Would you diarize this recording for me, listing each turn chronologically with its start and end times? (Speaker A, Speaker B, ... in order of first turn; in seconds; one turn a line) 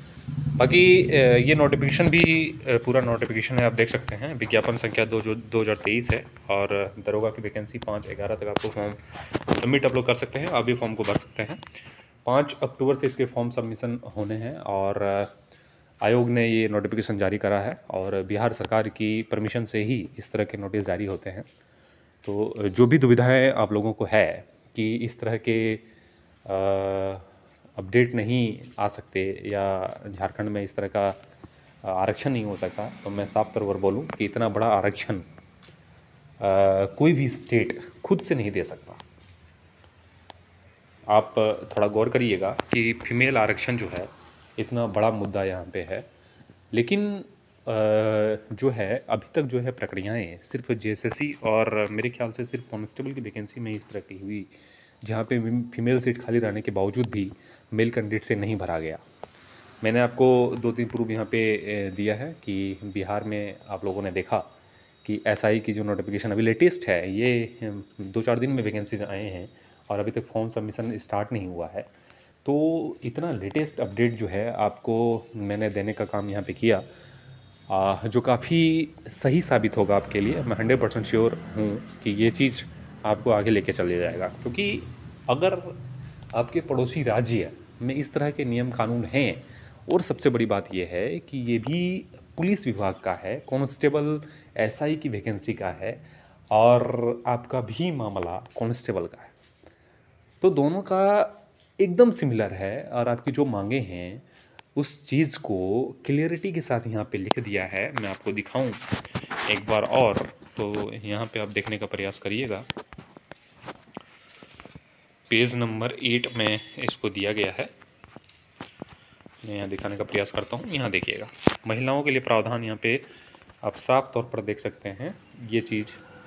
Speaker A: 0.6-11.7
Speaker A: 12.2-15.3
Speaker A: 16.0-21.5
Speaker A: 22.2-25.9
Speaker A: 26.4-31.2
Speaker A: 31.8-35.2
Speaker A: 36.4-39.0
Speaker A: 41.1-46.1
Speaker A: 46.7-54.5
Speaker A: 55.0-59.0
Speaker A: 59.8-64.5
Speaker A: 65.0-71.9
Speaker A: 72.5-76.9
Speaker A: 77.7-85.8
Speaker A: 86.3-99.3
Speaker A: 100.4-108.9
Speaker A: 109.5-112.7
Speaker A: 115.3-117.7
Speaker A: 119.4-123.0
Speaker A: 123.6-126.0